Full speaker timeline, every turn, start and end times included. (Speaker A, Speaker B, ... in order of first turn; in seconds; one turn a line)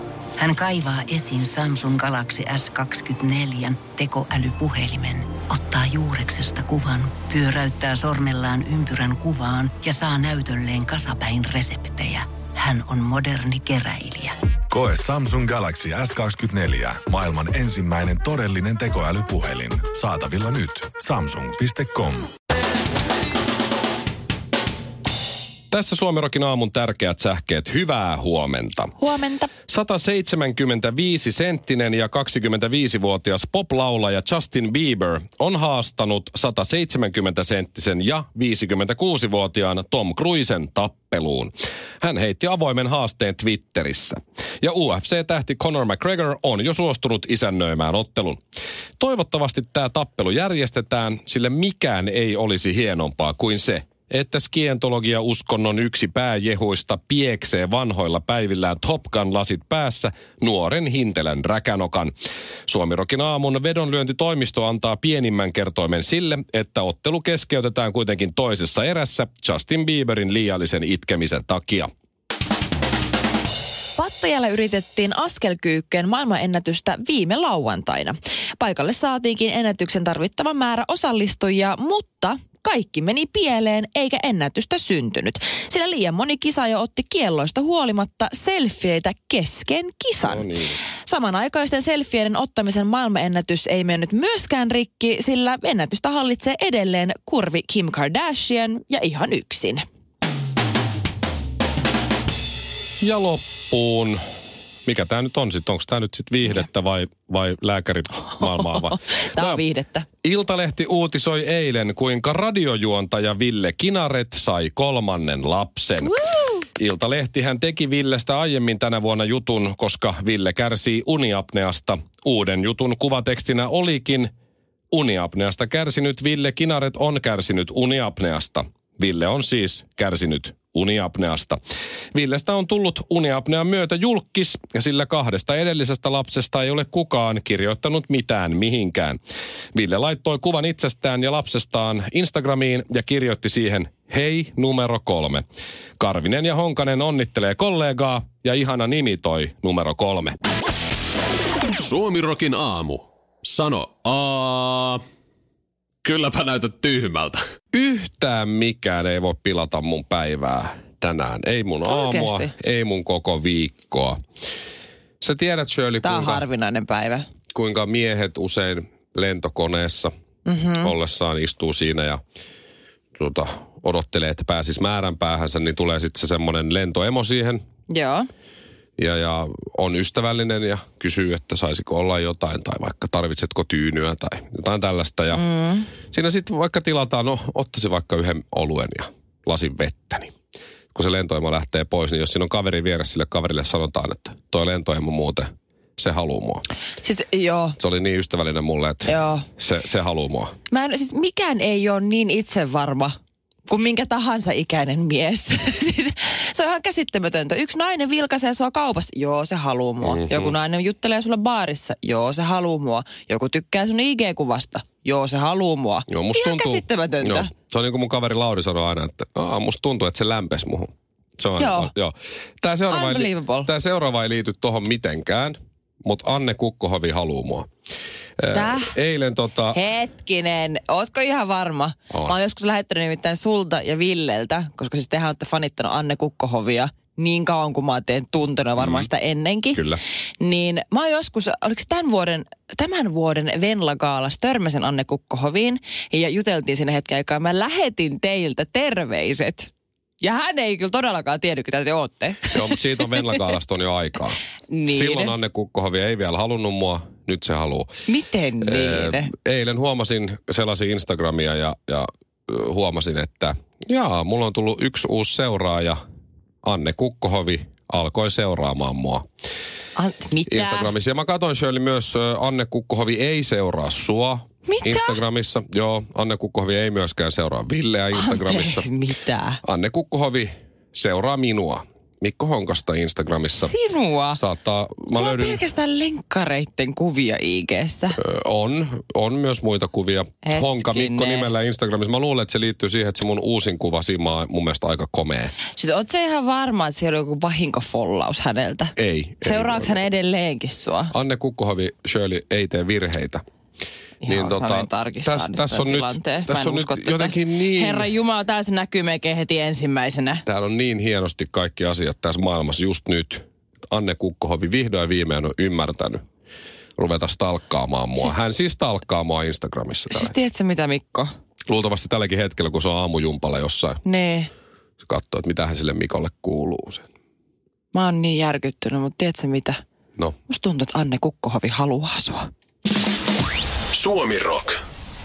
Speaker A: 0.4-14.3
Speaker B: 14.7-22.3
Speaker C: 25.7-28.9
Speaker D: 29.0-29.5
Speaker C: 29.7-48.4
Speaker C: 49.0-62.1
Speaker C: 62.7-71.9
Speaker D: 74.0-99.8
Speaker C: 90.2-90.8
Speaker C: 103.0-104.2
Speaker C: 104.8-109.6
Speaker D: 108.4-110.0
Speaker C: 110.2-116.2
Speaker D: 116.0-116.6
Speaker C: 116.8-124.3
Speaker C: 124.9-131.6
Speaker C: 132.1-139.2
Speaker C: 139.7-145.4
Speaker C: 146.0-150.3
Speaker E: 151.8-155.0
Speaker E: 156.0-157.4
Speaker C: 157.7-164.2
Speaker D: 161.8-162.5
Speaker C: 165.2-166.4
Speaker D: 166.0-167.2
Speaker C: 167.5-170.1
Speaker D: 170.4-170.9
Speaker C: 170.8-172.2
Speaker C: 173.2-177.6
Speaker D: 177.9-178.3
Speaker C: 179.0-185.4
Speaker D: 185.3-185.9
Speaker C: 186.1-190.3
Speaker C: 190.9-196.6
Speaker D: 197.0-197.8
Speaker C: 197.8-200.5
Speaker D: 199.1-199.4
Speaker D: 200.7-203.2
Speaker D: 203.7-217.5
Speaker C: 210.0-210.5
Speaker C: 216.1-227.7
Speaker D: 221.6-221.9
Speaker D: 222.9-223.7
Speaker C: 228.4-229.8
Speaker D: 228.5-228.9
Speaker D: 229.7-249.7
Speaker C: 238.8-239.1
Speaker C: 239.7-240.0
Speaker D: 250.2-253.4
Speaker C: 252.5-257.9
Speaker D: 254.7-255.3
Speaker D: 258.1-259.3
Speaker C: 258.6-266.0
Speaker C: 266.6-269.2
Speaker D: 269.9-270.9
Speaker C: 270.5-278.9
Speaker D: 274.7-275.2
Speaker D: 278.1-279.6
Speaker C: 279.6-283.8
Speaker D: 283.6-284.4
Speaker C: 284.3-285.6
Speaker D: 285.1-288.2
Speaker C: 288.2-295.5
Speaker D: 290.4-291.5
Speaker D: 295.7-301.1
Speaker C: 299.0-300.0
Speaker C: 301.1-303.4
Speaker C: 304.2-308.1
Speaker D: 304.2-310.4
Speaker C: 310.4-316.2
Speaker C: 317.0-320.3
Speaker D: 320.1-321.3
Speaker C: 321.7-324.0
Speaker D: 324.0-324.5
Speaker C: 325.0-327.1
Speaker D: 327.9-329.8
Speaker D: 330.5-332.5
Speaker E: 333.9-334.8